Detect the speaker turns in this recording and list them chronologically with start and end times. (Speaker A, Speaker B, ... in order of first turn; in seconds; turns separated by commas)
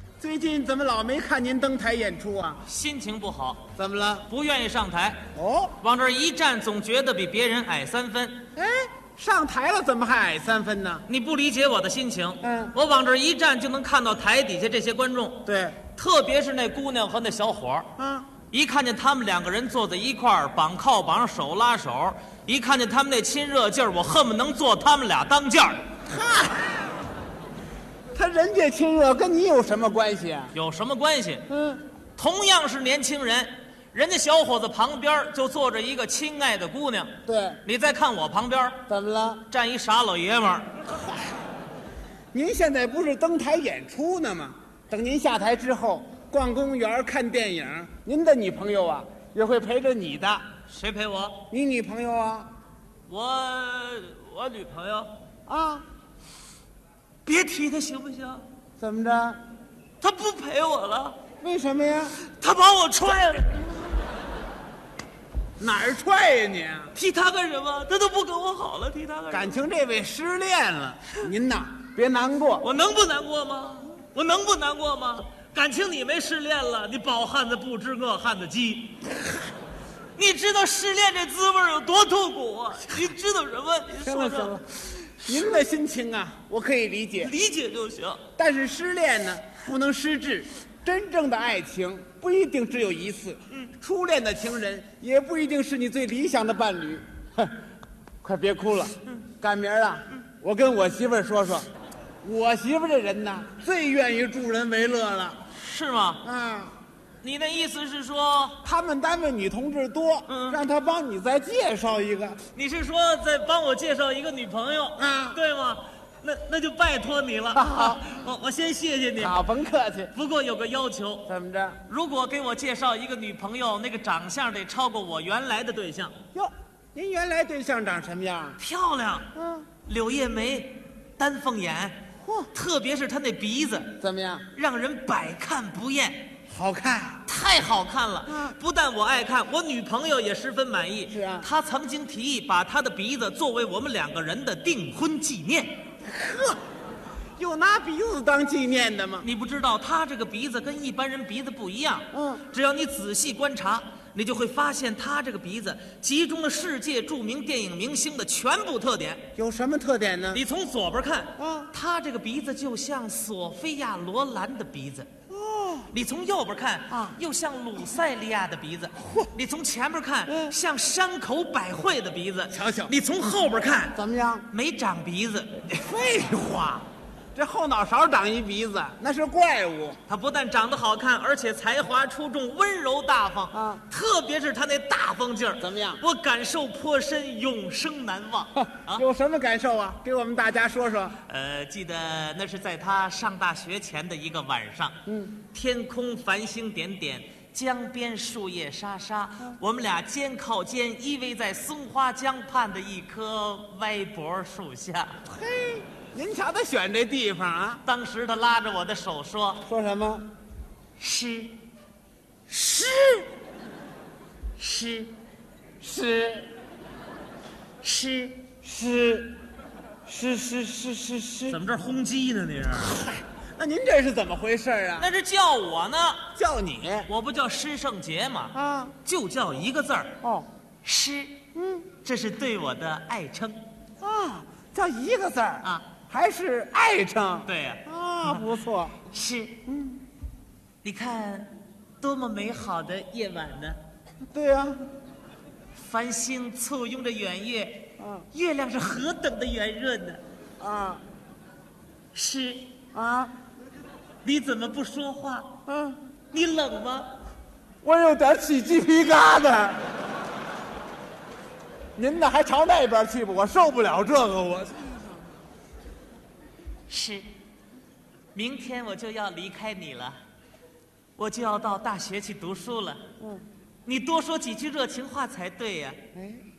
Speaker A: 0.2-2.6, Speaker B: 2.6-3.7, Speaker A: 3.8-4.3, Speaker B: 4.3-5.2, Speaker A: 5.3-5.8, Speaker B: 5.8-8.4, Speaker A: 8.5-11.0, Speaker B: 11.1-17.9, Speaker A: 12.4-12.8, Speaker A: 15.4-15.8, Speaker A: 18.0-18.3, Speaker B: 18.5-25.8, Speaker A: 26.1-26.9, Speaker A: 28.1-30.5, Speaker B: 30.5-31.4, Speaker A: 31.5-31.8, Speaker B: 32.1-38.8, Speaker A: 37.2-37.6, Speaker A: 38.9-39.5, Speaker B: 39.5-40.7, Speaker A: 42.3-50.4, Speaker B: 50.7-51.4, Speaker A: 51.5-52.5, Speaker B: 53.1-55.1, Speaker A: 55.5-55.8, Speaker B: 57.2-58.5, Speaker A: 58.8-59.4, Speaker B: 60.0-61.2, Speaker A: 61.4-62.2, Speaker B: 62.2-63.6, Speaker A: 65.6-66.9, Speaker B: 66.9-69.6, Speaker A: 69.3-72.7, Speaker B: 72.6-79.1, Speaker B: 80.2-85.6, Speaker A: 84.0-87.3, Speaker B: 87.2-88.2, Speaker A: 88.4-97.5, Speaker A: 98.2-101.7, Speaker A: 102.2-105.4, Speaker B: 105.5-106.2, Speaker A: 106.2-106.8, Speaker B: 107.2-108.6, Speaker A: 108.6-112.4, Speaker B: 110.3-110.6, Speaker B: 112.5-119.4, Speaker A: 115.0-115.4, Speaker A: 117.5-118.0, Speaker A: 119.2-120.1, Speaker B: 120.1-121.3, Speaker A: 121.3-121.8, Speaker B: 121.9-126.1, Speaker A: 126.3-128.6, Speaker B: 128.6-129.3, Speaker A: 129.3-129.7, Speaker B: 129.8-132.0, Speaker A: 132.2-132.5, Speaker B: 132.5-133.9, Speaker A: 134.0-134.4, Speaker B: 134.5-136.3, Speaker A: 136.5-137.2, Speaker B: 137.2-145.8, Speaker A: 138.3-138.6, Speaker A: 141.1-141.5, Speaker A: 146.0-146.6, Speaker A: 147.4-149.3, Speaker B: 149.2-159.3, Speaker A: 152.1-152.4, Speaker A: 159.3-160.4, Speaker B: 160.3-165.1, Speaker A: 161.4-161.7, Speaker A: 165.3-165.9, Speaker B: 165.9-175.7, Speaker A: 166.9-167.2, Speaker A: 170.3-170.5, Speaker A: 172.5-172.9, Speaker A: 173.9-174.5, Speaker A: 175.7-180.0, Speaker B: 180.1-189.0, Speaker A: 183.5-183.8, Speaker A: 185.6-186.0, Speaker A: 188.6-191.2, Speaker B: 191.2-205.2, Speaker A: 195.1-195.3, Speaker A: 205.2-207.8, Speaker B: 207.8-209.7, Speaker A: 209.7-210.3, Speaker B: 211.0-211.6, Speaker B: 212.5-213.3, Speaker B: 214.6-215.1, Speaker A: 215.8-216.5, Speaker B: 217.8-218.4, Speaker A: 218.6-219.4, Speaker A: 220.1-221.6, Speaker B: 221.5-223.0, Speaker A: 222.8-225.1, Speaker B: 225.0-226.3, Speaker A: 226.3-227.1, Speaker B: 227.1-230.2, Speaker A: 228.5-228.9, Speaker A: 230.2-230.5, Speaker B: 230.8-231.4, Speaker A: 231.5-231.9, Speaker B: 232.0-233.6, Speaker A: 234.0-239.0, Speaker B: 235.6-235.9, Speaker B: 237.4-238.3, Speaker B: 239.1-239.6, Speaker A: 239.7-240.0, Speaker B: 240.8-243.8, Speaker A: 244.3-244.9, Speaker B: 245.8-250.2, Speaker A: 248.0-248.2, Speaker A: 250.6-251.0, Speaker B: 252.1-252.7, Speaker A: 252.9-253.3, Speaker B: 254.2-255.5, Speaker A: 255.7-256.0, Speaker B: 256.3-257.1, Speaker A: 257.8-259.8, Speaker A: 261.9-265.0, Speaker B: 266.9-267.3, Speaker B: 268.3-270.2, Speaker B: 271.2-273.0, Speaker B: 273.8-276.0, Speaker A: 276.1-276.4